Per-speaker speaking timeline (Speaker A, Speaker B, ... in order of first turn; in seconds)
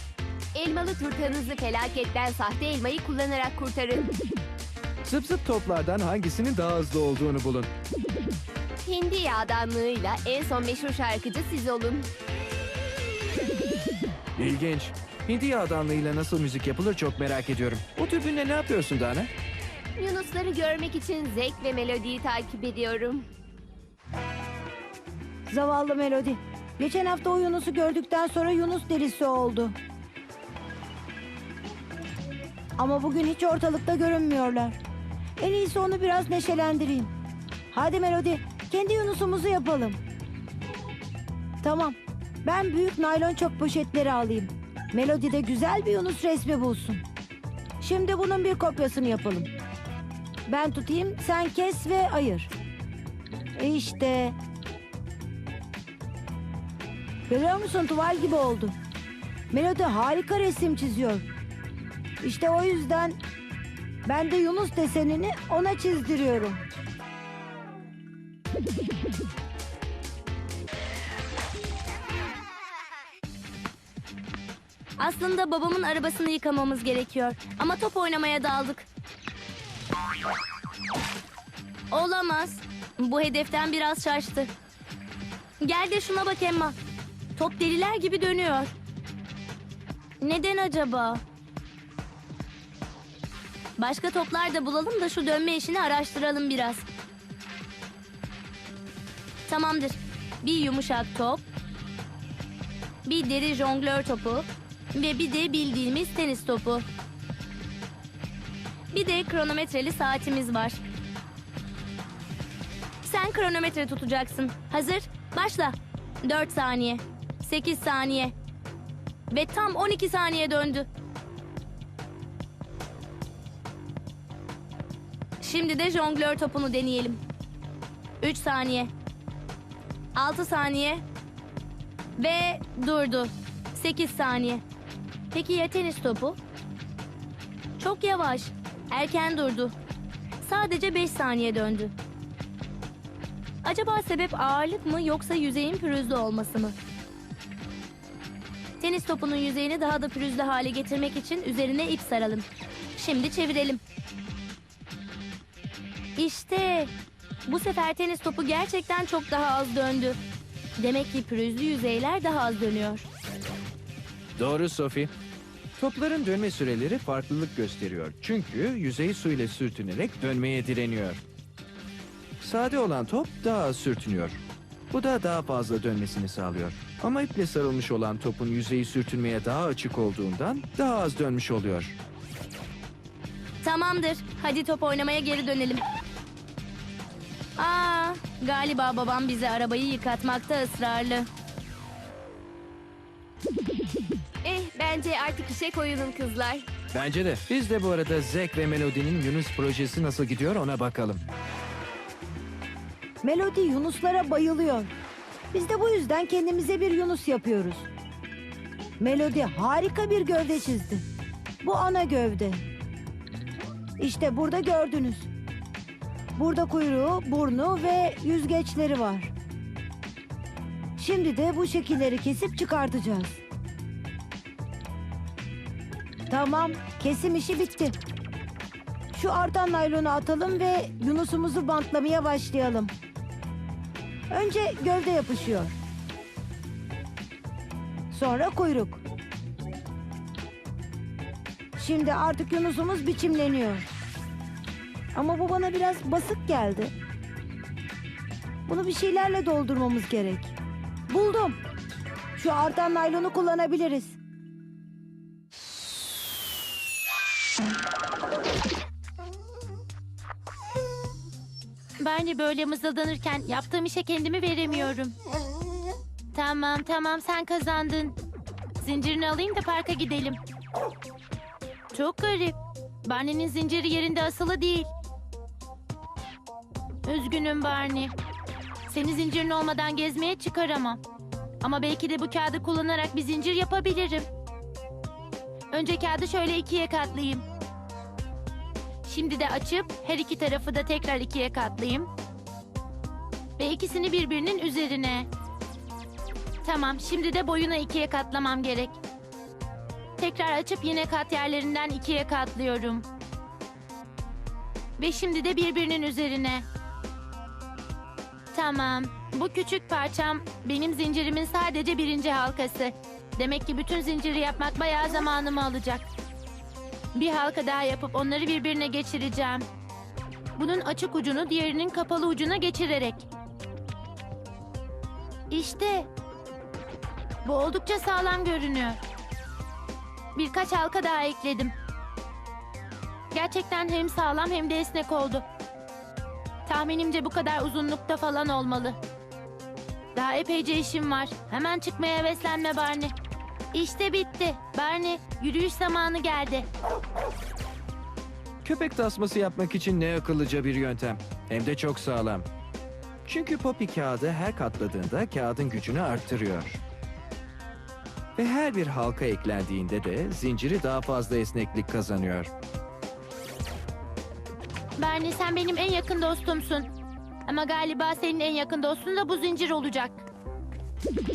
Speaker A: 0.5-4.1, 8.8-12.1, 20.0-23.3, 194.4-196.7
Speaker B: 5.0-7.7, 14.4-19.3, 164.4-165.1, 165.8-171.2, 172.4-182.0, 196.9-201.2, 348.6-352.5, 353.2-356.8, 358.4-362.5
Speaker C: 25.5-29.7, 32.8-34.8, 35.4-37.1, 37.7-40.0, 41.6-47.0, 47.8-49.5, 50.5-52.5, 53.5-54.4, 57.3-58.8, 59.5-61.3, 62.2-63.2, 64.0-66.6, 203.2-204.9, 205.5-207.9, 209.0-211.0, 211.6-212.6, 214.0-215.3, 216.3-219.3, 221.0-223.4, 226.3-227.9, 229.1-232.9, 234.3-235.7, 238.1-239.0, 241.8-243.9, 245.1-246.9, 248.7-250.6, 251.1-251.6, 252.3-254.2
Speaker D: 75.0-78.9, 81.9-84.5, 85.6-86.8, 87.3-88.7, 90.2-91.2, 93.8-96.8, 99.5-101.4, 103.0-106.8, 108.9-110.8, 113.0-118.3, 119.3-120.9, 125.4-127.2, 128.2-128.9, 130.1-131.0, 132.2-134.6, 135.3-136.4, 137.8-139.7, 140.4-141.9, 143.6-146.7, 148.8-153.8, 156.2-156.9, 157.4-160.2, 160.8-163.1, 183.6-185.8, 187.6-191.3
Speaker E: 262.0-265.1, 266.3-268.1, 268.8-270.4, 271.9-274.9, 277.0-278.1, 278.9-281.0, 281.6-284.3, 285.7-287.4, 289.0-292.1, 293.6-295.3, 296.6-299.0, 300.2-303.1, 305.0-306.6, 308.5-316.0, 317.1-319.6, 320.6-323.2, 325.5-326.1, 327.4-329.0, 330.4-331.7, 333.3-335.4, 336.6-339.0, 340.1-343.1, 343.7-346.6, 365.0-366.9, 367.5-370.2